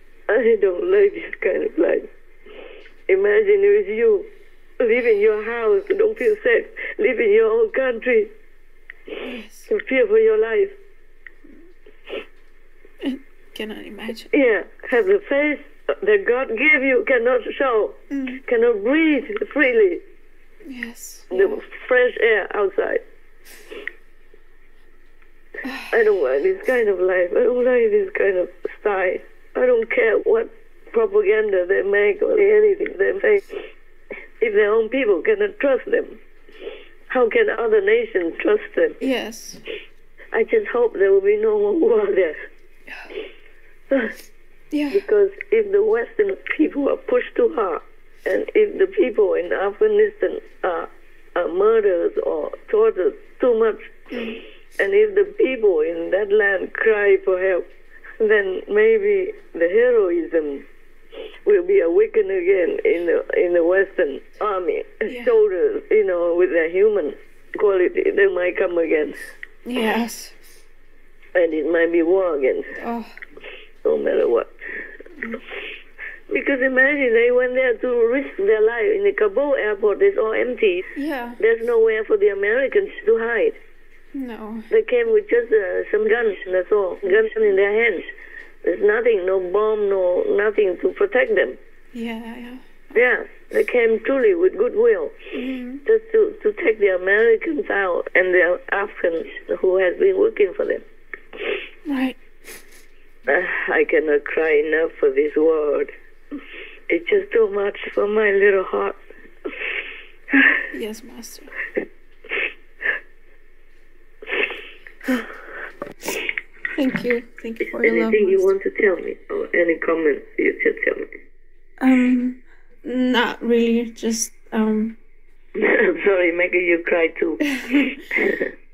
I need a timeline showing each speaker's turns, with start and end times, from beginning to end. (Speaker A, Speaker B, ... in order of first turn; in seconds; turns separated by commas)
Speaker A: 0.3-2.1, Speaker A: 3.1-4.3, Speaker A: 4.8-8.3, Speaker B: 9.2-9.7, Speaker A: 9.7-10.8, Speaker B: 13.0-14.3, Speaker A: 14.3-20.0, Speaker B: 18.1-18.4, Speaker B: 20.7-21.6, Speaker A: 21.3-23.0, Speaker A: 25.9-33.5, Speaker A: 34.4-36.2, Speaker A: 37.1-39.0, Speaker B: 39.0-39.6, Speaker A: 40.3-42.4, Speaker A: 43.9-44.2, Speaker B: 44.7-45.0, Speaker A: 44.9-54.0, Speaker B: 54.1-54.4, Speaker A: 54.8-57.7, Speaker A: 58.2-60.6, Speaker A: 61.5-69.2, Speaker B: 65.1-65.3, Speaker B: 69.7-70.3, Speaker A: 71.3-72.8, Speaker B: 72.8-73.2, Speaker A: 73.8-74.5, Speaker A: 76.3-83.6, Speaker B: 81.0-81.4, Speaker B: 84.2-84.7, Speaker A: 84.7-88.1, Speaker A: 88.6-91.6, Speaker B: 91.9-92.9, Speaker A: 92.9-95.2, Speaker B: 95.3-95.8, Speaker A: 95.8-100.8, Speaker B: 101.9-102.2, Speaker A: 103.3-105.9, Speaker A: 106.9-109.0, Speaker B: 110.7-111.5, Speaker B: 116.8-118.6, Speaker A: 117.8-121.1, Speaker B: 121.8-125.0, Speaker A: 125.6-128.5, Speaker B: 127.5-127.9